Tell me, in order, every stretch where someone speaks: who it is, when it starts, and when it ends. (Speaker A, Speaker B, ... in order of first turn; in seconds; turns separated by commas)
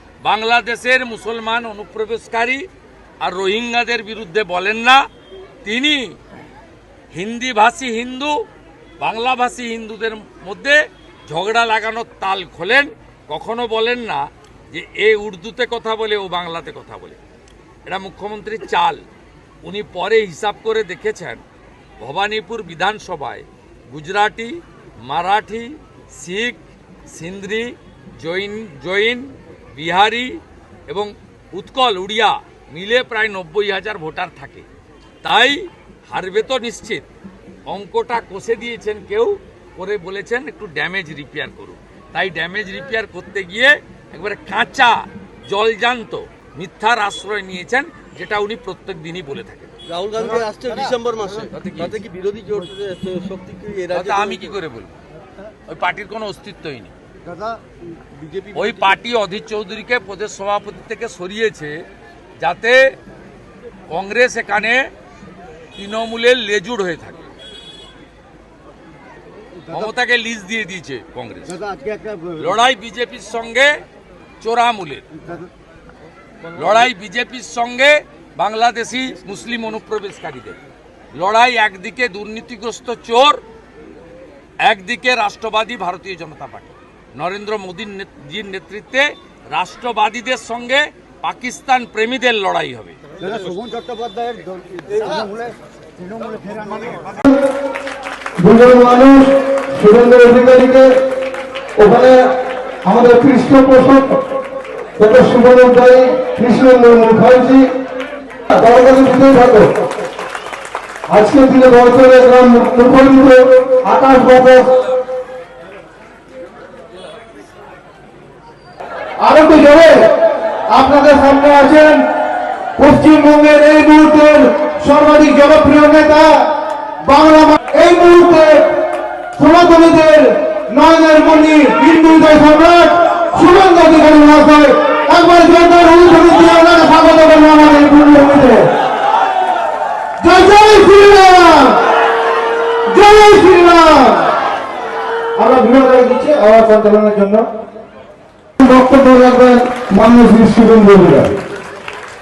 Speaker A: 0.2-2.6, Speaker A: 3.2-5.0, Speaker A: 5.6-6.2, Speaker A: 7.1-8.4, Speaker A: 9.0-17.2, Speaker A: 17.8-19.0, Speaker A: 19.6-21.4, Speaker A: 22.0-34.7, Speaker A: 35.2-37.1, Speaker A: 37.7-49.7, Speaker B: 49.9-54.5, Speaker A: 51.2-52.0, Speaker A: 53.9-54.9, Speaker A: 55.7-56.9, Speaker B: 57.3-57.6, Speaker B: 58.1-58.5, Speaker A: 58.5-61.9, Speaker A: 62.4-63.0, Speaker A: 63.9-64.9, Speaker A: 65.7-67.3, Speaker A: 69.7-71.7, Speaker A: 72.3-73.8, Speaker A: 74.4-75.1, Speaker A: 76.5-80.6, Speaker A: 81.1-83.4, Speaker A: 84.6-93.0, Speaker B: 93.2-95.3, Speaker C: 98.4-101.0, Speaker C: 101.8-102.3, Speaker C: 102.8-104.2, Speaker C: 105.0-107.7, Speaker C: 108.5-109.7, Speaker C: 111.1-114.8, Speaker C: 119.2-122.1, Speaker C: 122.8-128.8, Speaker C: 129.3-138.7, Speaker C: 140.2-141.8, Speaker C: 142.9-144.3, Speaker C: 145.4-147.5, Speaker C: 148.6-151.4